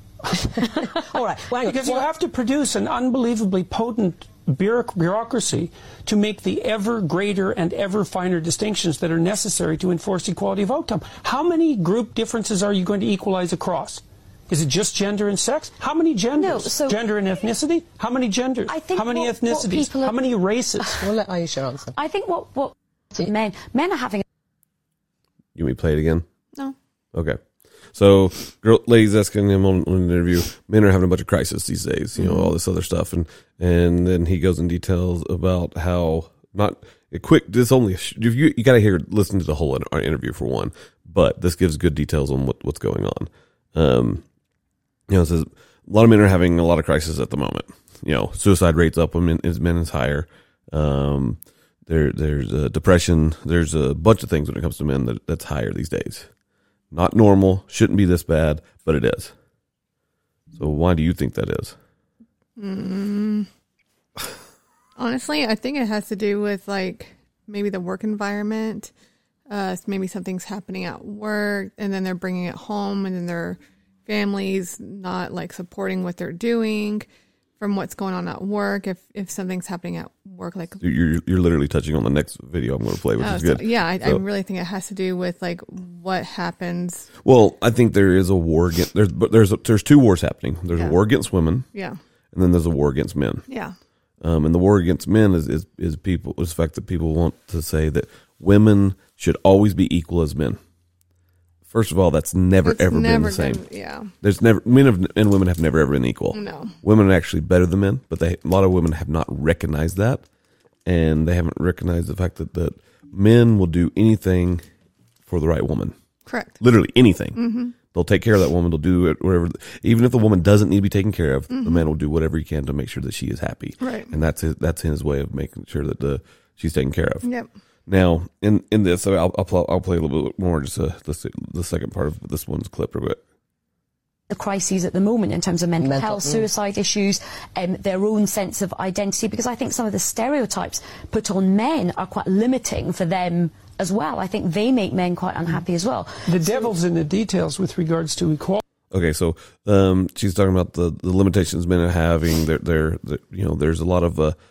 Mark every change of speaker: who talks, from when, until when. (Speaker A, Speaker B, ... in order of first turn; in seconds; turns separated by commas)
Speaker A: 0.3-2.0, Speaker B: 0.6-1.1, Speaker C: 1.5-21.1, Speaker B: 16.4-17.0, Speaker B: 18.7-20.1, Speaker A: 21.0-21.9, Speaker B: 21.9-24.2, Speaker D: 25.5-26.2, Speaker D: 27.1-27.4, Speaker D: 27.9-44.2, Speaker E: 32.1-32.5, Speaker D: 45.1-56.3, Speaker D: 56.9-59.3, Speaker D: 60.5-61.8, Speaker E: 62.6-63.5, Speaker E: 65.0-68.9, Speaker E: 69.5-77.0, Speaker E: 77.6-80.8, Speaker D: 80.8-84.2, Speaker E: 83.2-87.1, Speaker D: 87.2-91.7, Speaker D: 92.3-93.4, Speaker E: 93.5-93.7, Speaker D: 94.2-100.6, Speaker D: 101.7-103.6, Speaker E: 102.6-104.1, Speaker D: 104.2-110.2, Speaker E: 106.3-106.7, Speaker D: 110.8-114.6, Speaker D: 115.3-115.9, Speaker E: 116.3-116.6, Speaker D: 116.6-127.2, Speaker E: 117.3-117.7, Speaker E: 121.5-121.9, Speaker E: 123.8-124.1, Speaker E: 127.2-127.5, Speaker D: 127.9-133.2, Speaker B: 134.3-146.5, Speaker A: 135.8-136.5, Speaker C: 146.2-148.6, Speaker D: 148.9-154.3